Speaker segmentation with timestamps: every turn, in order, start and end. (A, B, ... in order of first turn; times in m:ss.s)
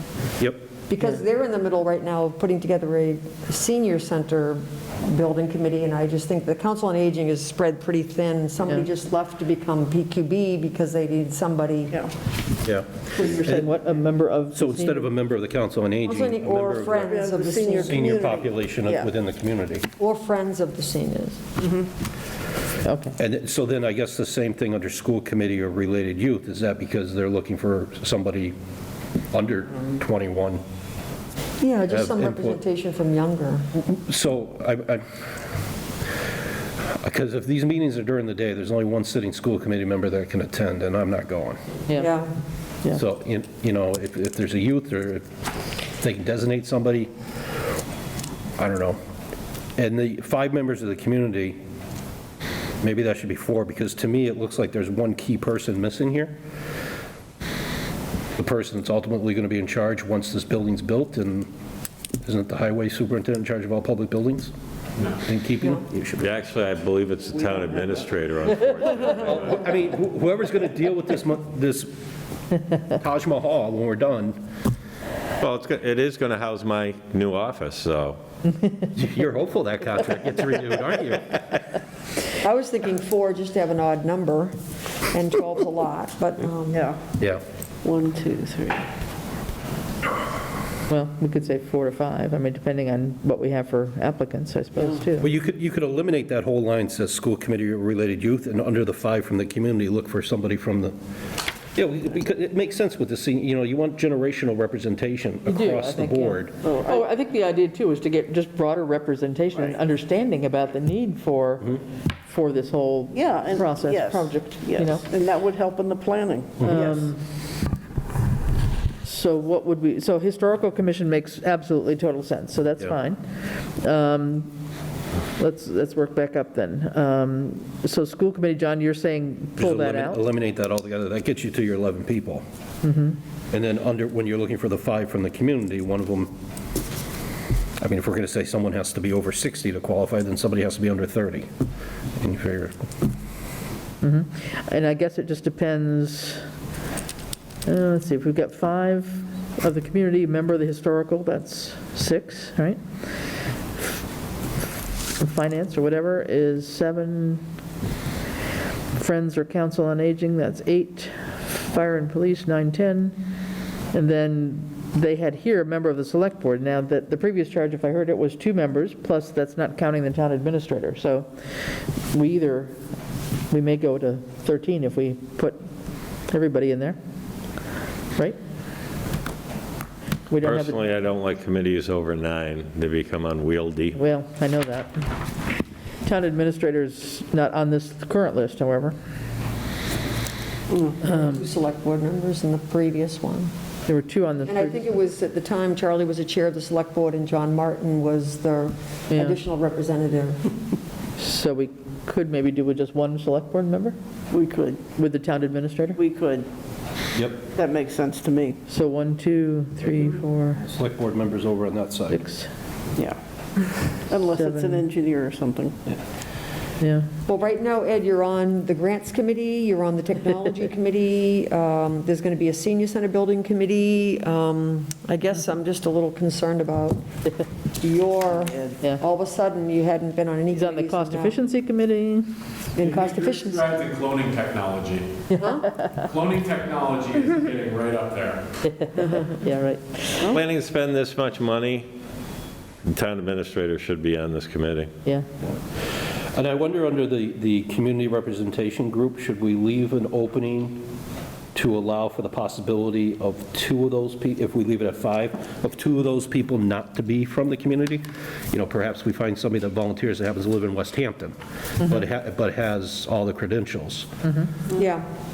0:00.9-0:12.0 A
0:12.6-0:13.7 B
0:13.3-0:15.1 C
0:14.5-0:17.2 B
0:16.0-0:18.0 A
0:17.1-0:19.1 D
0:17.8-0:19.9 B
0:20.0-0:21.4 A
0:21.6-0:21.9 D
0:22.8-0:23.1 C
0:23.2-0:28.5 B
0:29.3-0:30.6 B
0:31.6-0:33.7 A
0:31.9-0:32.6 B
0:33.7-0:35.2 B
0:37.0-0:41.6 B
0:41.9-0:42.2 C
0:41.9-0:42.3 A
0:42.9-0:45.2 B
0:46.0-0:47.1 B
0:48.6-0:49.0 B
0:49.8-0:51.6 B
0:52.8-0:56.4 B
0:58.4-1:01.5 B
1:02.2-1:04.5 B
1:05.2-1:06.3 B
1:06.2-1:09.3 E
1:09.0-1:11.9 B
1:12.9-1:14.4 B
1:15.4-1:18.2 E
1:18.9-1:21.6 B
1:22.4-1:24.5 A
1:25.1-1:26.9 A
1:26.7-1:27.0 D
1:27.8-1:28.9 D
1:30.9-1:35.2 C
1:35.2-1:40.9 B
1:41.8-1:46.5 B
1:45.4-1:55.0 C
1:46.6-1:47.0 D
1:53.1-1:57.1 D
1:56.6-1:57.2 C
1:59.0-2:04.5 C
2:05.4-2:10.2 C
2:09.6-2:12.4 B
2:12.8-2:13.2 C
2:13.5-2:16.3 B
2:17.8-2:21.5 B
2:22.2-2:22.8 B
2:24.0-2:26.4 C
2:27.6-2:32.8 C
2:35.2-2:37.4 C
2:38.9-2:43.2 C
2:43.9-2:51.3 C
2:52.1-2:52.7 C
2:53.5-2:55.6 C
2:56.3-2:57.0 C
3:00.3-3:00.8 C
3:00.4-3:04.0 E
3:03.9-3:05.1 C
3:06.0-3:09.0 C
3:11.0-3:13.5 A
3:11.1-3:11.4 C
3:13.9-3:14.9 C
3:14.5-3:20.4 A
3:19.1-3:19.4 C
3:21.2-3:24.0 C
3:24.3-3:24.9 D
3:24.9-3:26.0 C
3:26.0-3:26.5 D
3:27.1-3:27.4 B
3:27.5-3:28.6 D
3:28.7-3:30.7 C
3:30.7-3:32.2 B
3:32.1-3:32.5 C
3:33.0-3:36.0 D
3:34.2-3:34.8 C
3:36.8-3:37.1 C
3:37.2-3:47.0 A
3:47.8-3:51.4 A
3:50.5-3:52.3 C
3:52.7-3:53.7 A
3:52.8-3:55.1 F
3:55.3-3:55.9 C
3:55.4-3:55.7 A
3:56.0-3:58.4 F
3:59.3-4:00.3 C
4:00.3-4:01.9 E
4:02.8-4:04.9 E
4:06.4-4:10.8 B
4:11.5-4:24.1 B
4:24.7-4:25.0 A